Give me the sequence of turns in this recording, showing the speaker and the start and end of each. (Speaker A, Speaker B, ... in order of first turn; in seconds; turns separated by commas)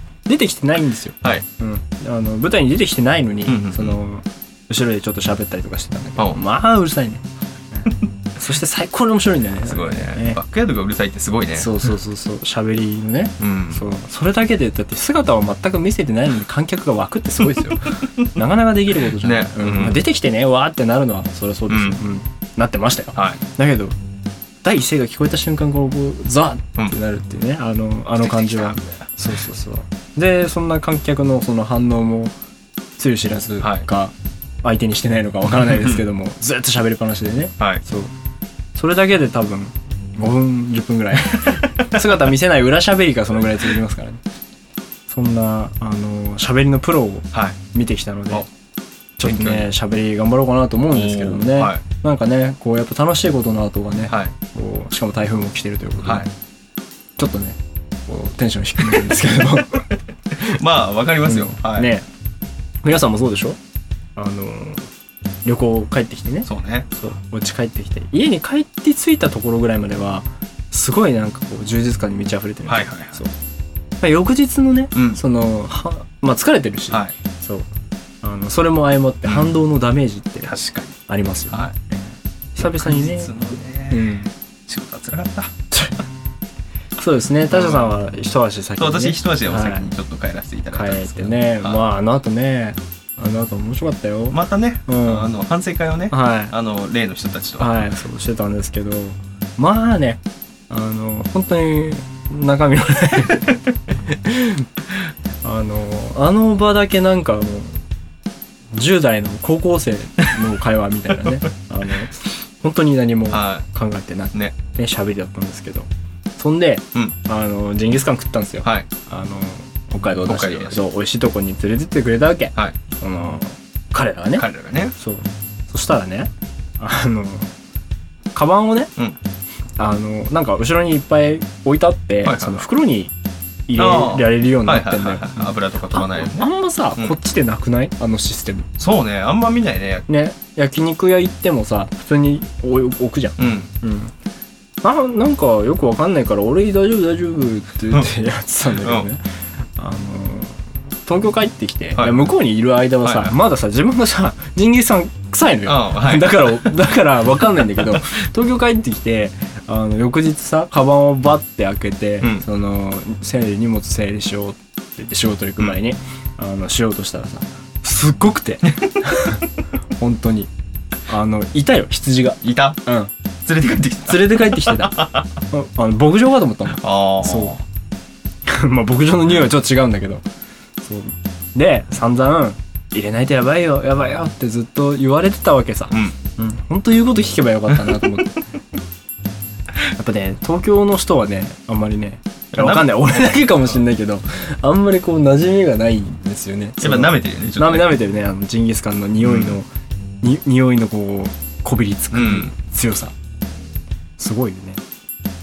Speaker A: 0.3-10.4, Speaker B: 3.5-4.0, Speaker B: 9.6-11.9, Speaker A: 11.5-23.9, Speaker B: 13.4-13.9, Speaker B: 17.6-18.2, Speaker B: 19.0-20.1, Speaker B: 21.7-22.0, Speaker B: 23.1-23.4, Speaker A: 24.6-32.3, Speaker B: 28.1-29.0, Speaker A: 33.0-34.1, Speaker B: 33.6-33.8, Speaker A: 34.6-38.1, Speaker A: 38.7-44.2, Speaker B: 41.4-41.9, Speaker A: 45.1-48.5, Speaker B: 47.3-47.6, Speaker A: 49.2-56.2, Speaker B: 49.2-49.7, Speaker B: 50.9-51.8, Speaker B: 54.1-54.3, Speaker B: 56.0-56.3, Speaker A: 57.2-60.6, Speaker B: 60.3-61.9, Speaker A: 61.2-62.0, Speaker A: 62.8-63.6, Speaker A: 64.2-64.9, Speaker A: 65.4-73.3, Speaker B: 66.4-66.9, Speaker B: 72.7-73.2, Speaker A: 74.0-77.6, Speaker B: 74.9-75.2, Speaker A: 78.2-80.5, Speaker B: 79.2-79.5, Speaker B: 80.4-81.0, Speaker A: 81.1-83.3, Speaker B: 81.5-81.8, Speaker B: 82.6-84.1, Speaker A: 83.9-84.3, Speaker B: 84.7-85.5, Speaker A: 87.0-89.9, Speaker B: 87.5-88.0, Speaker B: 88.8-91.8, Speaker A: 90.7-95.3, Speaker B: 94.3-97.9, Speaker A: 96.1-96.5, Speaker A: 97.6-104.7, Speaker A: 105.4-107.8, Speaker A: 108.7-127.5, Speaker B: 113.3-113.7, Speaker B: 120.2-120.9, Speaker B: 124.4-124.9, Speaker A: 128.3-128.9, Speaker A: 129.8-133.1, Speaker B: 132.2-132.6, Speaker A: 133.7-138.7, Speaker B: 133.8-137.1, Speaker B: 138.8-140.1, Speaker A: 140.1-144.1, Speaker B: 143.4-143.7, Speaker A: 144.8-149.2, Speaker B: 148.8-149.1, Speaker A: 149.8-170.5, Speaker B: 153.0-153.3, Speaker B: 155.7-156.7, Speaker B: 157.8-158.0, Speaker B: 162.2-162.4, Speaker A: 171.1-173.1, Speaker B: 172.4-172.8, Speaker B: 173.4-175.3, Speaker A: 174.1-177.6, Speaker B: 176.8-177.6, Speaker A: 178.4-180.2, Speaker A: 180.8-188.4, Speaker B: 185.9-186.2, Speaker A: 189.9-199.7, Speaker B: 192.5-192.9, Speaker B: 196.8-197.9, Speaker B: 199.2-199.6, Speaker A: 200.2-203.1, Speaker B: 202.1-202.5, Speaker A: 204.2-204.8